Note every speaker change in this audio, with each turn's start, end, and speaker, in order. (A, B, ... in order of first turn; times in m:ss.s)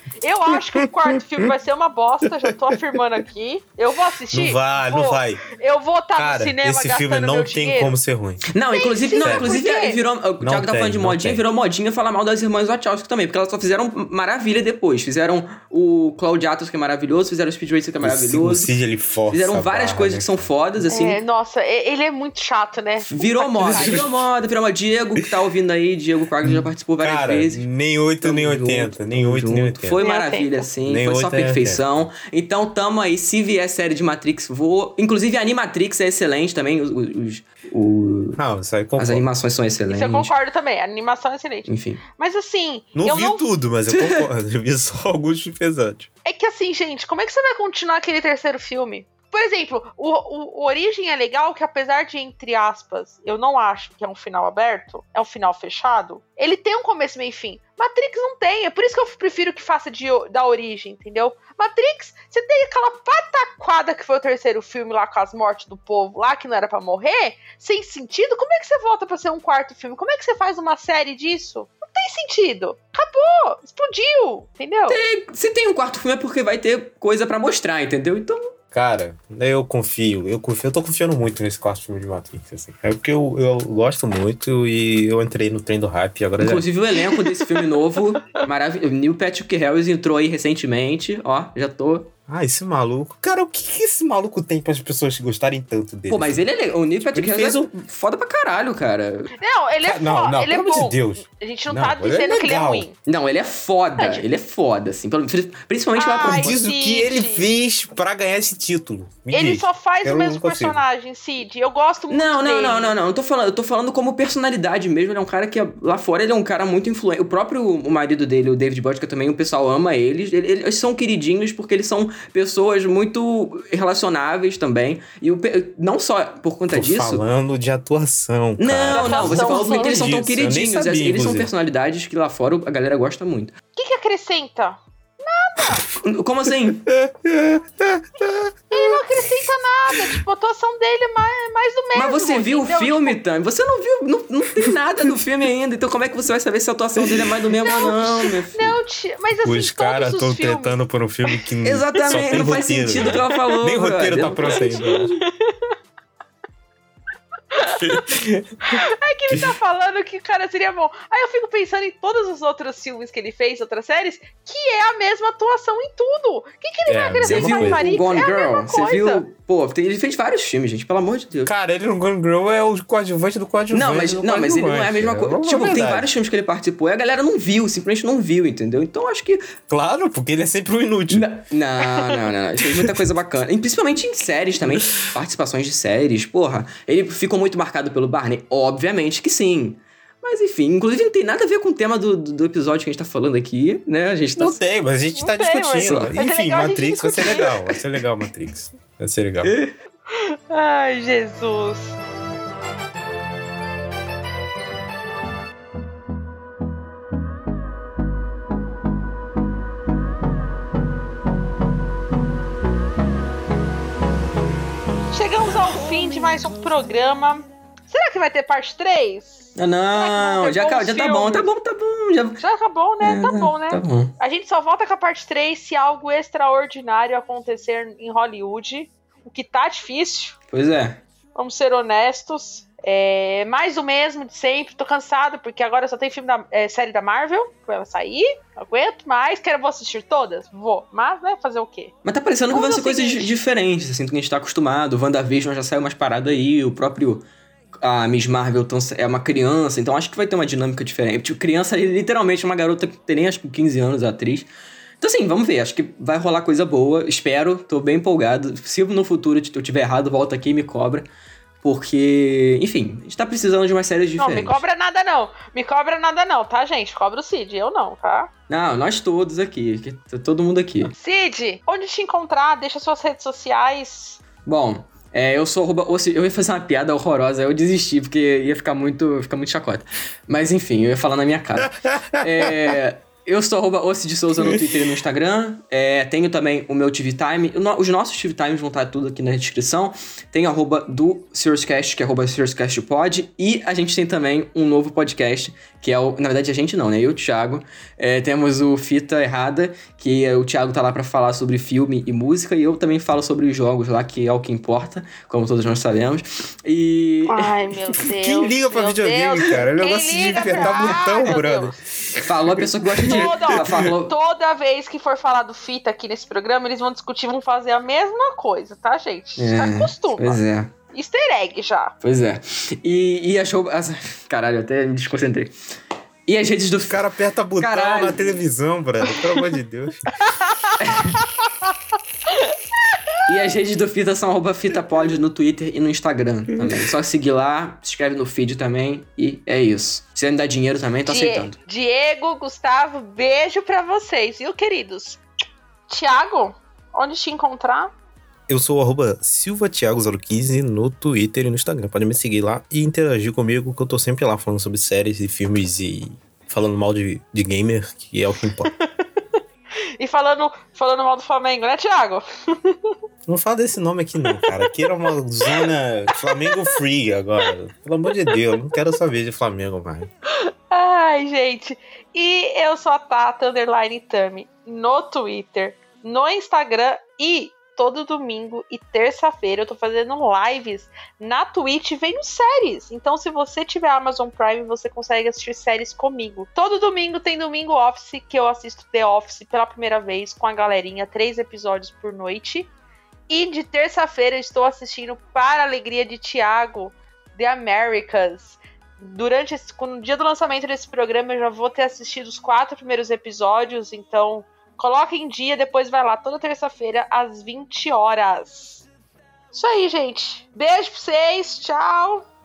0:00.2-0:07.9 A
0:04.3-0:05.4 B
0:06.2-0:08.5 B
0:08.5-0:18.7 C
0:08.7-0:10.0 A
0:09.2-0:09.5 B
0:10.4-0:11.4 B
0:18.0-0:20.4 B
0:19.3-0:21.2 C
0:20.9-0:24.1 A
0:23.1-0:27.6 C
0:23.6-0:24.1 B
0:26.4-0:30.0 B
0:28.2-0:38.4 C
0:30.0-0:30.7 A
0:30.8-0:31.8 B
0:38.4-0:39.2 B
0:39.0-0:40.3 C
0:39.9-0:43.5 A
0:41.7-0:42.0 C
0:42.9-0:46.1 B
0:43.9-0:44.3 C
0:46.2-1:15.0 A
1:14.9-1:18.5 C
1:18.7-1:26.6 B
1:26.4-1:32.1 C
1:32.3-1:36.4 B
1:36.1-1:39.3 C
1:37.1-1:37.7 B
1:39.4-1:42.9 A
1:39.8-1:42.8 B
1:43.0-1:46.5 C
1:44.0-1:44.2 A
1:45.9-1:47.5 A
1:46.3-1:50.8 B
1:49.3-1:52.9 A
1:52.1-2:07.2 C
2:06.7-2:11.5 B
2:08.6-2:13.5 C
2:08.9-2:10.0 A
2:13.8-2:15.8 A
2:16.0-2:16.8 C
2:16.7-2:19.2 B
2:18.7-2:23.2 A
2:21.9-2:28.8 C
2:27.0-2:27.4 B
2:27.6-2:30.8 A
2:29.4-2:35.1 B
2:31.6-2:35.0 C
2:32.0-2:32.5 A
2:34.5-2:35.7 A
2:37.5-2:49.2 A
2:37.6-2:38.8 B
2:39.3-2:39.6 B
2:46.8-2:47.9 B
2:47.2-2:51.5 C
2:51.4-2:56.1 B
2:53.7-2:59.5 C
2:59.7-3:01.3 B
3:01.1-3:14.6 C
3:04.6-3:05.1 B
3:14.4-3:19.5 B
3:15.1-3:17.5 A
3:15.8-3:16.1 C
3:17.2-3:17.8 C
3:19.4-3:19.7 C
3:20.1-3:22.0 A
3:35.1-3:41.5 A
3:39.6-3:42.4 C
3:42.4-3:50.4 A
3:43.0-3:44.1 C
3:50.5-3:51.0 C
3:51.3-4:01.9 A
4:02.0-4:07.2 C
4:02.5-4:03.3 A
4:07.8-4:14.5 C
4:15.0-4:21.1 C
4:21.6-4:24.6 C
4:24.2-4:28.3 A
4:28.5-4:30.9 C
4:30.9-4:34.2 A
4:34.4-5:07.5 C
4:41.8-4:42.5 B
4:44.4-4:44.8 B
5:07.3-5:11.8 A
5:08.0-5:12.2 B
5:10.6-5:10.9 C
5:12.2-5:14.1 C
5:13.0-5:13.3 B
5:13.0-5:20.4 A
5:19.4-5:20.7 C
5:20.9-5:21.9 A
5:22.0-5:25.5 C
5:26.3-5:27.1 C
5:26.9-5:30.3 B
5:27.6-5:28.4 C
5:30.4-5:31.2 A
5:30.8-5:31.2 C
5:33.2-5:41.6 C
5:41.1-5:45.2 A
5:45.9-5:47.9 A
5:48.5-5:58.7 B
6:00.0-6:02.9 A
6:03.3-6:10.1 B
6:04.3-6:04.9 A
6:06.2-6:06.7 A
6:10.4-6:32.7 A
6:33.3-6:48.8 A
6:49.5-6:52.2 A